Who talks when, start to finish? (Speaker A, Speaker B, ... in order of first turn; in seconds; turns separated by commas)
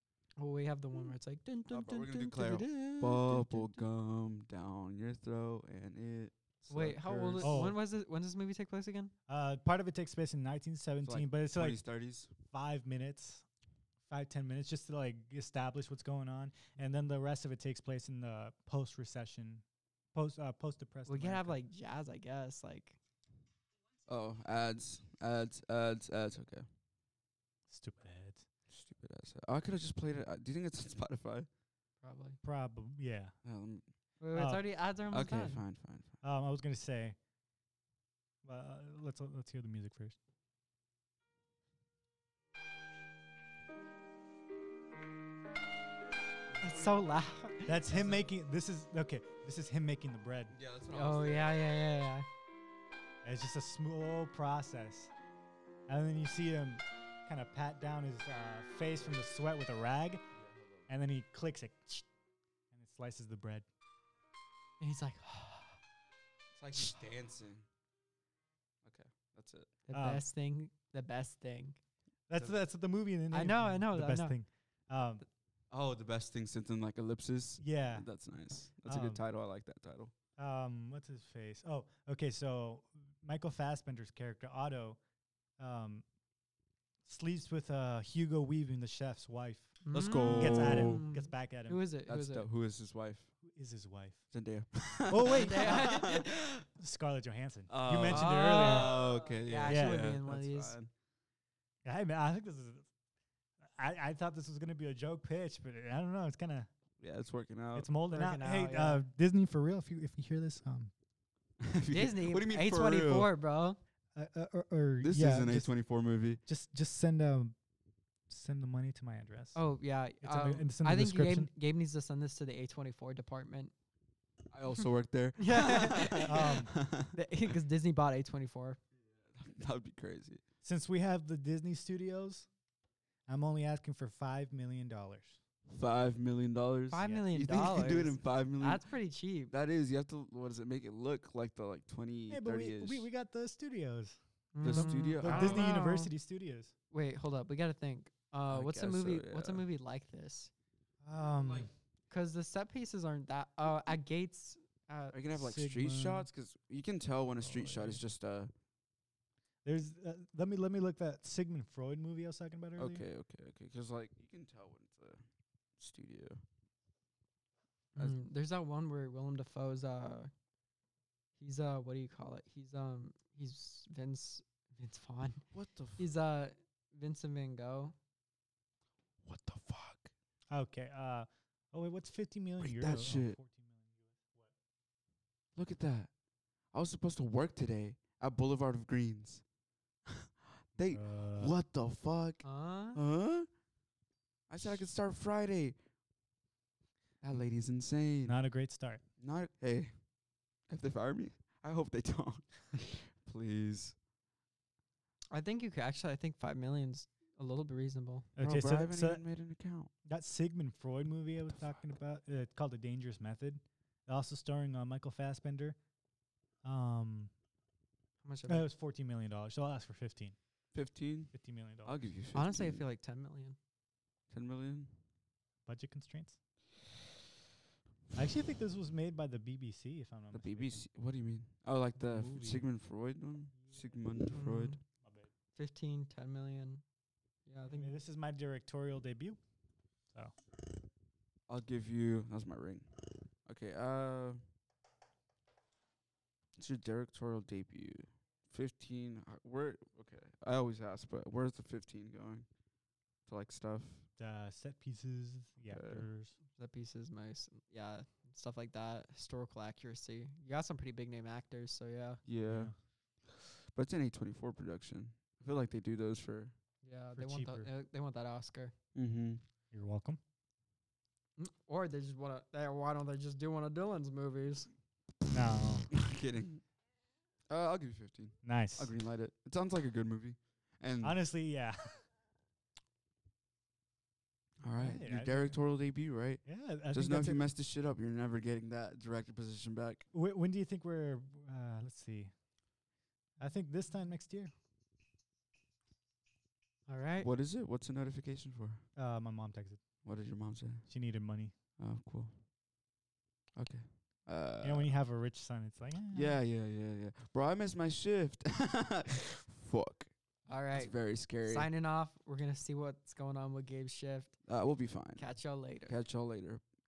Speaker A: 0.4-3.9, Speaker B: 1.7-7.6, Speaker A: 6.7-9.1, Speaker C: 7.4-7.8, Speaker C: 9.3-11.8, Speaker B: 11.0-12.3, Speaker C: 12.5-13.4, Speaker C: 14.1-21.6, Speaker A: 21.1-23.0, Speaker B: 24.1-26.6, Speaker C: 27.7-28.4, Speaker B: 28.7-31.5, Speaker A: 32.0-32.4, Speaker C: 32.4-33.3, Speaker B: 33.4-33.9, Speaker A: 34.2-35.6, Speaker C: 34.3-34.6, Speaker B: 35.1-36.1, Speaker C: 36.2-37.2, Speaker C: 38.4-40.2, Speaker B: 46.5-47.0, Speaker A: 46.6-47.8, Speaker C: 47.7-50.5, Speaker B: 50.5-51.8, Speaker A: 50.9-52.3, Speaker C: 53.2-55.1, Speaker C: 55.9-60.2, Speaker B: 60.3-60.9, Speaker C: 60.9-62.0, Speaker C: 62.7-63.6, Speaker A: 64.8-65.8, Speaker B: 66.5-67.7, Speaker B: 68.8-69.7, Speaker A: 69.9-71.8, Speaker C: 69.9-70.2, Speaker C: 72.3-75.2, Speaker A: 73.3-74.4, Speaker B: 75.7-80.1, Speaker C: 77.6-78.1, Speaker C: 78.8-79.2, Speaker C: 80.4-85.0, Speaker C: 85.6-86.0, Speaker C: 87.0-89.8, Speaker A: 89.8-92.5, Speaker B: 89.9-91.0, Speaker C: 90.3-91.8, Speaker B: 92.1-93.3, Speaker C: 93.4-94.2, Speaker B: 94.3-96.6, Speaker C: 95.1-96.0, Speaker A: 95.3-96.4, Speaker C: 96.7-98.9, Speaker B: 97.7-100.9, Speaker A: 98.0-100.8, Speaker C: 99.7-100.1, Speaker C: 101.8-102.9, Speaker C: 103.7-106.7, Speaker B: 107.0-107.9, Speaker C: 107.7-110.9, Speaker A: 108.1-109.0, Speaker B: 111.6-113.3, Speaker A: 111.9-113.8, Speaker C: 114.1-115.7, Speaker B: 115.0-116.4, Speaker C: 116.4-117.5, Speaker C: 118.3-119.6, Speaker A: 119.5-123.7, Speaker C: 120.2-121.5, Speaker B: 124.5-127.2, Speaker A: 125.4-128.8, Speaker C: 126.2-126.7, Speaker B: 129.3-130.4, Speaker C: 130.6-132.5, Speaker C: 133.3-135.4, Speaker B: 135.7-138.9, Speaker A: 136.9-139.5, Speaker C: 137.0-138.0, Speaker B: 139.5-143.1, Speaker C: 142.3-146.7, Speaker A: 144.5-146.1, Speaker B: 144.6-145.7, Speaker A: 146.9-150.5, Speaker B: 148.5-149.6, Speaker C: 151.0-151.7, Speaker B: 151.1-151.7, Speaker A: 152.1-155.2, Speaker B: 155.1-158.5, Speaker C: 155.3-156.3, Speaker C: 157.4-158.0, Speaker C: 159.6-163.1, Speaker B: 162.8-165.2, Speaker B: 165.8-166.4, Speaker A: 167.9-170.3, Speaker A: 171.4-177.9, Speaker B: 175.5-176.1, Speaker B: 179.2-180.1, Speaker C: 180.5-184.5, Speaker B: 182.6-183.4, Speaker B: 185.6-186.1, Speaker B: 186.7-189.4, Speaker B: 190.1-193.5, Speaker C: 190.8-191.5, Speaker A: 192.4-193.0, Speaker B: 194.5-195.8, Speaker B: 197.2-198.4, Speaker C: 198.2-199.0, Speaker B: 199.2-199.9, Speaker B: 200.7-203.9, Speaker A: 205.3-208.3, Speaker C: 208.4-209.2, Speaker B: 208.4-209.9, Speaker C: 210.1-215.8, Speaker C: 216.6-217.3, Speaker A: 218.2-218.7, Speaker C: 218.5-220.3, Speaker B: 220.7-221.3, Speaker C: 221.3-222.1, Speaker B: 221.8-222.8, Speaker A: 222.3-223.6, Speaker B: 224.3-225.0, Speaker C: 225.7-226.4, Speaker C: 228.1-230.8, Speaker B: 230.3-234.8, Speaker C: 231.9-232.7, Speaker A: 234.3-234.8, Speaker C: 235.0-235.3, Speaker A: 235.6-236.8, Speaker A: 237.5-237.9, Speaker C: 237.7-239.4, Speaker B: 241.5-244.4, Speaker B: 246.6-252.5, Speaker B: 253.2-254.1, Speaker C: 254.2-256.4, Speaker B: 255.7-256.1, Speaker A: 256.5-262.2, Speaker B: 262.2-262.7, Speaker C: 262.5-262.7, Speaker B: 263.2-266.5, Speaker A: 266.8-268.7, Speaker C: 267.1-267.7, Speaker B: 268.9-269.4, Speaker C: 269.7-270.2, Speaker A: 271.4-274.7, Speaker C: 275.3-275.9, Speaker B: 275.9-276.6, Speaker B: 277.5-281.2, Speaker C: 278.4-278.9, Speaker C: 281.0-282.0, Speaker B: 284.6-290.1, Speaker C: 284.8-285.6, Speaker C: 286.4-287.4, Speaker C: 290.1-292.3, Speaker C: 293.4-294.5, Speaker A: 296.9-297.3, Speaker B: 297.2-298.8, Speaker C: 298.9-299.8, Speaker B: 300.0-300.9, Speaker C: 300.9-301.5, Speaker B: 301.8-302.4, Speaker B: 303.6-304.9, Speaker C: 304.6-306.4, Speaker B: 306.1-311.7, Speaker A: 310.5-314.4, Speaker B: 314.4-315.3, Speaker A: 315.1-316.0, Speaker B: 315.9-316.6